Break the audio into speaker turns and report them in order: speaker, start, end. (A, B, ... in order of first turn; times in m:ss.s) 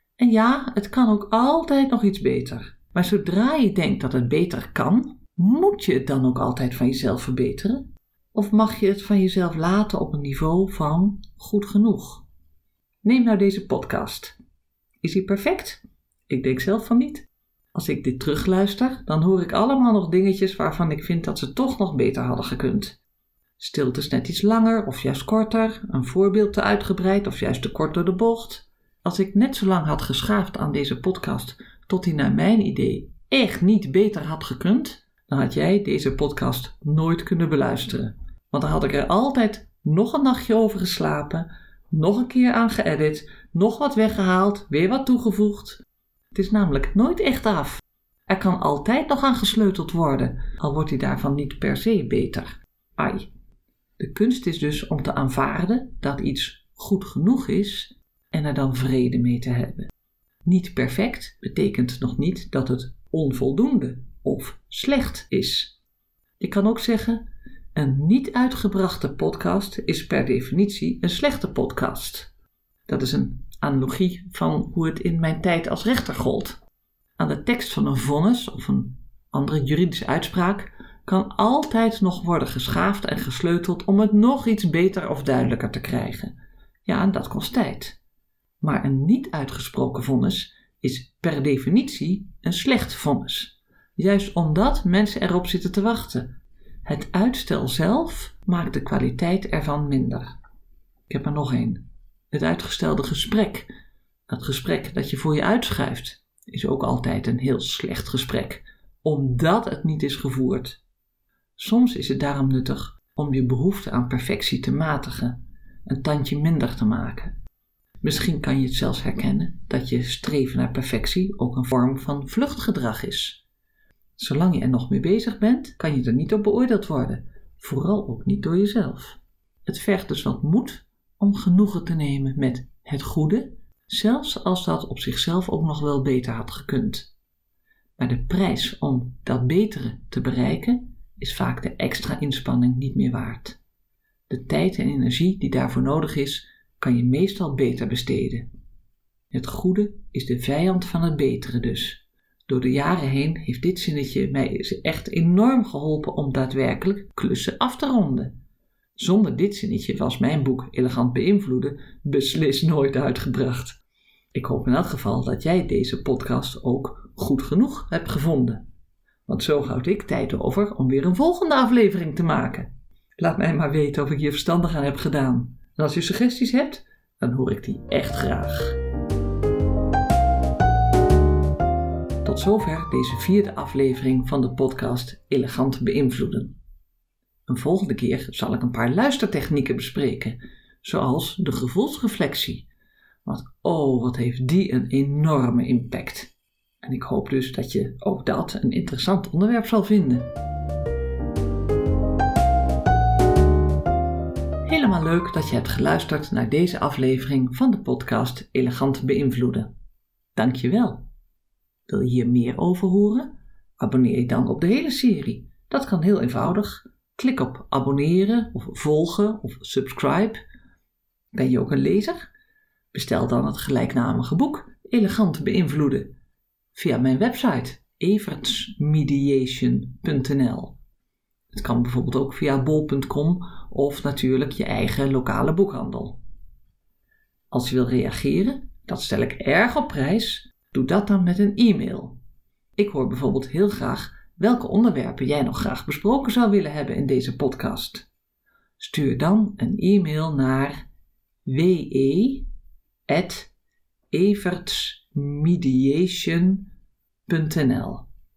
0:00.2-0:12.3 A
0:13.0-0:14.4 A
0:15.0-0:23.0 A
0:23.6-0:45.8 A
0:46.3-0:53.3 A
0:54.0-0:59.9 A
1:00.4-1:05.8 A
1:06.4-1:07.2 A
1:07.8-1:12.3 A
1:12.9-1:16.6 A
1:17.2-1:26.3 A
1:26.8-1:28.0 A
1:28.6-1:36.3 A
1:36.8-1:40.3 A
1:41.1-1:43.7 A
1:44.3-1:50.8 A
1:51.6-1:57.4 A
1:58.0-2:03.4 A
2:04.2-2:17.1 A
2:18.0-2:23.6 A
2:24.3-2:28.5 A
2:29.3-2:38.3 A
2:39.0-2:43.8 A
2:44.3-2:48.6 A
2:49.3-2:58.8 A
3:02.2-3:06.6 A
3:07.5-3:12.7 A
3:13.2-3:16.3 A
3:16.8-3:20.3 A
3:24.7-3:29.7 A
3:30.4-3:31.1 A
3:31.9-3:40.4 A
3:41.3-3:42.2 A
3:42.9-3:46.1 A
3:46.8-3:50.8 A
3:51.5-3:56.2 A
3:57.5-4:02.2 A
4:02.8-4:08.1 A
4:08.8-4:10.8 A
4:11.5-4:12.5 A
4:13.1-4:13.5 A
4:14.1-4:16.7 A
4:17.3-4:18.0 A